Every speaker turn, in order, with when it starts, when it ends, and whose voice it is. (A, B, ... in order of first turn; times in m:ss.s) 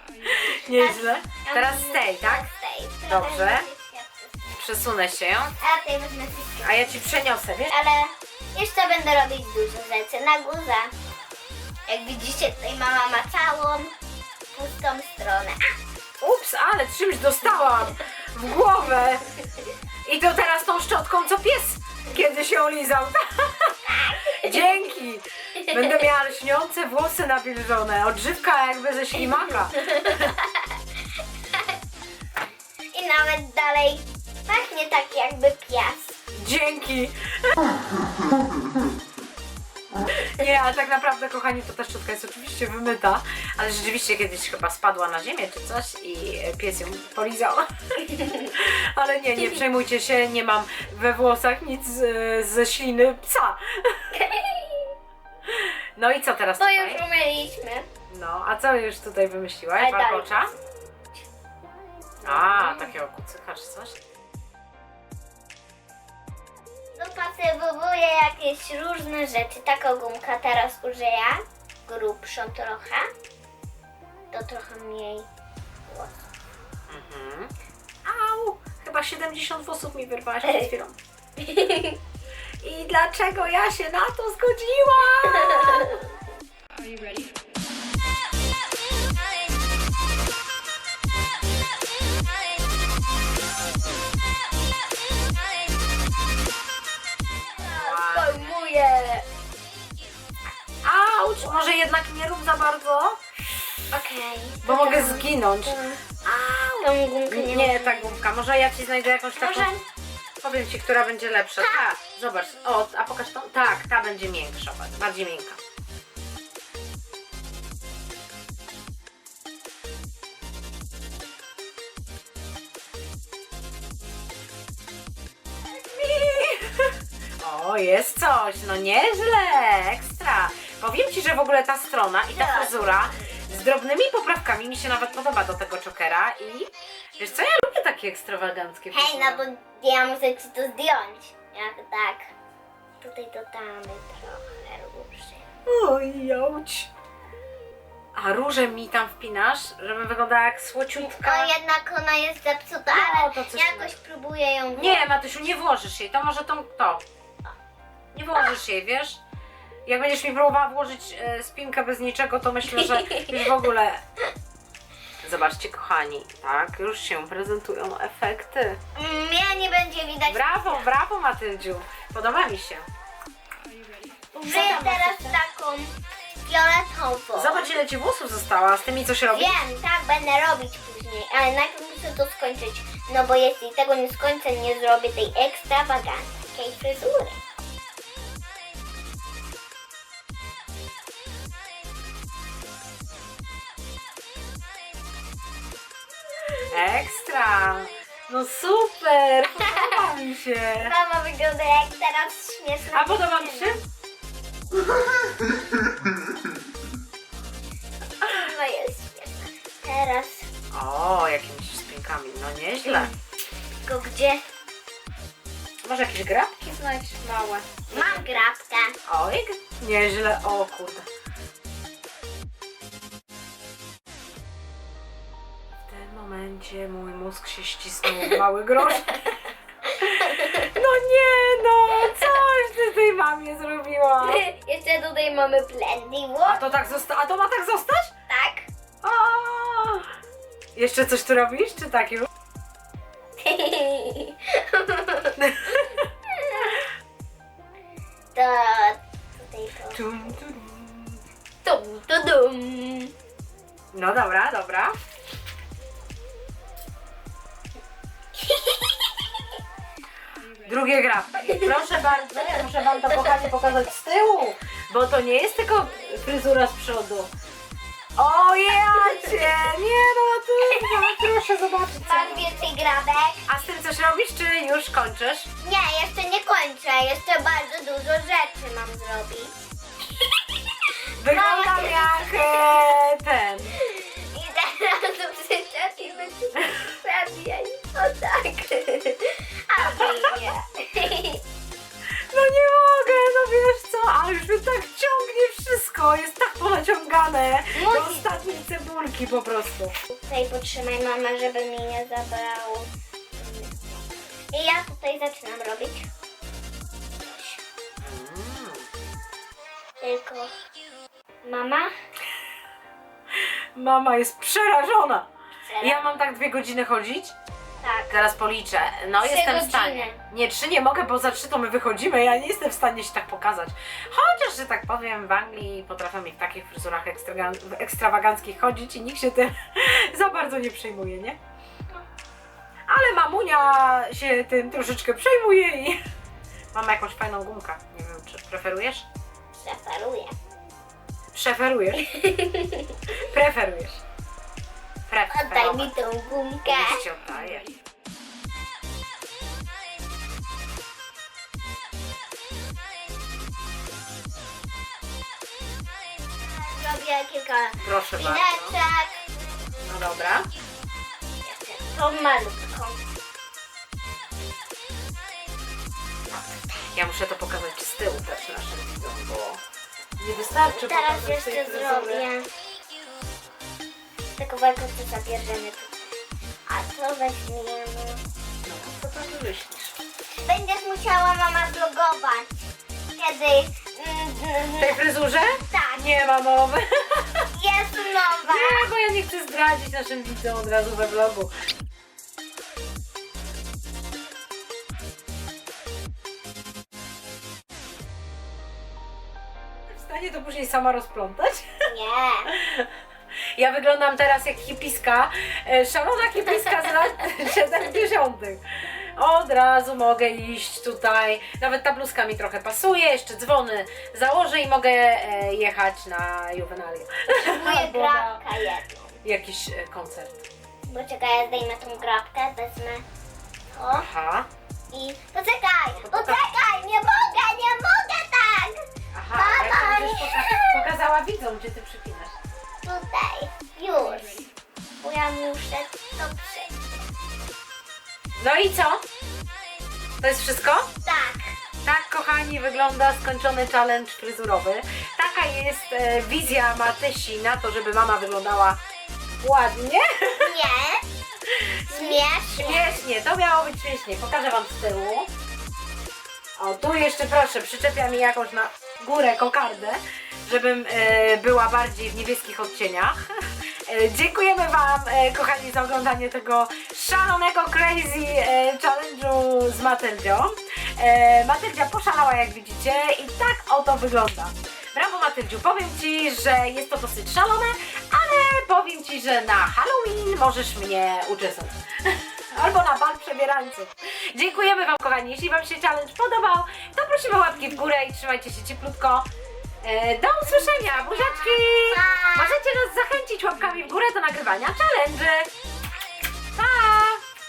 0:00.2-0:02.5 A
0:00.4-0:04.6 B
0:03.1-0:03.6 A
0:04.6-0:05.5 A
0:05.6-0:07.0 B
0:06.6-0:07.8 A
0:07.7-0:10.9 B
0:11.9-0:13.9 B
0:14.5-0:15.6 B
0:16.2-0:19.2 A
0:20.0-0:30.3 A
0:23.9-0:24.6 B
0:25.6-0:26.0 B
0:29.8-0:30.6 B
0:32.9-0:36.2 B
0:36.3-0:37.5 A
0:40.2-0:54.1 A
0:48.0-0:48.5 B
0:54.1-0:54.9 B
0:55.5-0:57.0 A
0:56.6-0:57.9 B
0:58.1-1:00.5 A
0:59.8-1:00.6 B
1:02.2-1:02.9 B
1:02.2-1:04.0 A
1:07.0-1:13.1 B
1:14.3-1:15.3 B
1:15.9-1:16.2 B
1:16.9-1:17.5 A
1:18.0-1:21.0 A
1:21.4-1:22.0 B
1:22.6-1:26.0 A
1:25.4-1:26.0 B
1:37.6-1:39.2 B
1:37.7-1:38.5 A
1:40.8-1:43.2 A
1:43.9-1:48.2 B
1:44.6-1:45.8 A
1:47.3-1:49.7 A
1:49.4-1:49.8 B
1:50.4-1:55.6 A
2:05.7-2:19.4 A
2:12.3-2:13.2 B
2:18.9-2:22.3 B
2:23.0-2:25.4 B
2:25.6-2:26.9 A
2:28.2-2:31.5 A
2:31.0-2:35.0 B
2:32.9-2:33.9 A
2:34.8-2:37.0 A
2:38.1-2:39.2 A
2:39.9-2:44.0 A
2:42.8-2:43.3 B
2:45.2-2:48.8 A
2:49.0-2:50.9 B
2:50.3-2:52.9 A
2:54.4-2:55.4 A
2:54.4-2:57.7 B
2:57.4-2:59.6 A
2:59.3-3:07.4 B
3:16.6-3:20.9 A
3:19.6-3:20.0 B
3:20.8-3:23.8 B
3:22.9-3:23.8 A
3:28.2-3:30.5 B
3:30.7-3:33.1 A
3:32.8-3:33.2 B
3:33.8-3:34.4 B
3:35.8-3:38.4 A
3:37.9-3:38.9 B
3:39.0-3:41.1 A
3:45.9-3:49.5 A
3:49.8-3:50.7 B
3:50.1-3:54.5 A
3:54.2-3:56.8 B
3:56.4-3:58.1 A
3:58.3-3:58.7 B
3:59.0-4:00.1 A
4:00.8-4:02.3 A
4:03.4-4:05.4 B
4:05.4-4:06.1 A
4:06.3-4:06.8 B
4:08.4-4:10.0 B
4:09.9-4:11.2 A
4:11.6-4:13.1 B
4:13.9-4:14.9 A
4:18.4-4:19.0 B
4:20.6-4:27.3 A
4:28.2-4:32.5 A
4:29.0-4:29.5 B
4:30.7-4:31.3 B
4:32.0-4:33.5 B
4:33.5-4:35.5 A
4:35.6-4:39.7 B
4:41.2-4:43.8 A
4:41.2-4:42.8 B
4:43.7-4:51.4 B
4:49.8-4:50.3 A
4:52.3-4:59.9 A
4:57.7-4:58.6 B
5:00.1-5:06.1 B
5:07.2-5:07.6 B
5:08.0-5:08.9 A
5:10.0-5:10.5 B
5:11.4-5:11.9 B
5:13.3-5:15.3 A
5:15.6-5:16.2 B
5:15.8-5:17.4 A
5:17.8-5:18.1 B
5:18.1-5:31.4 A
5:19.2-5:20.2 B
5:32.9-5:36.0 A
5:36.7-5:39.0 A
5:39.6-5:40.4 B
5:41.3-5:42.1 A
5:42.0-5:42.9 B
5:43.1-5:44.0 A
5:45.1-5:45.9 A
5:45.3-5:47.0 B
5:46.6-5:47.7 A
5:56.4-5:59.2 B
5:57.8-5:58.8 A
5:59.8-6:00.5 A
6:01.4-6:03.1 B
6:06.9-6:09.6 A
6:10.2-6:12.2 A
6:10.6-6:12.5 B
6:14.4-6:16.1 B
6:16.7-6:18.2 B
6:18.6-6:20.0 A
6:20.4-6:26.0 B
6:24.8-6:27.5 A
6:27.5-6:28.9 B
6:28.5-6:31.5 A
6:39.9-6:41.7 A
6:41.9-6:42.5 B
6:42.5-6:42.9 A
6:43.6-6:48.6 A
6:49.2-6:58.4 A
6:57.4-6:59.2 B
6:59.2-7:00.4 A
7:00.9-7:03.0 B
7:03.7-7:04.0 B
7:03.9-7:04.5 A
7:04.9-7:08.8 B
7:05.9-7:06.4 A
7:09.1-7:12.4 A
7:09.3-7:10.9 B
7:12.8-7:14.5 B
7:15.0-7:16.8 B
7:18.4-7:19.0 A
7:20.2-7:20.9 A
7:21.0-7:21.5 B
7:21.8-7:28.8 A
7:29.4-7:30.5 A
7:30.4-7:31.0 B
7:31.5-7:35.3 A
7:31.9-7:33.0 B
7:36.6-7:43.3 A
7:43.9-8:09.3 A
8:09.8-8:15.5 A
8:10.9-8:12.6 B
8:16.5-8:17.2 A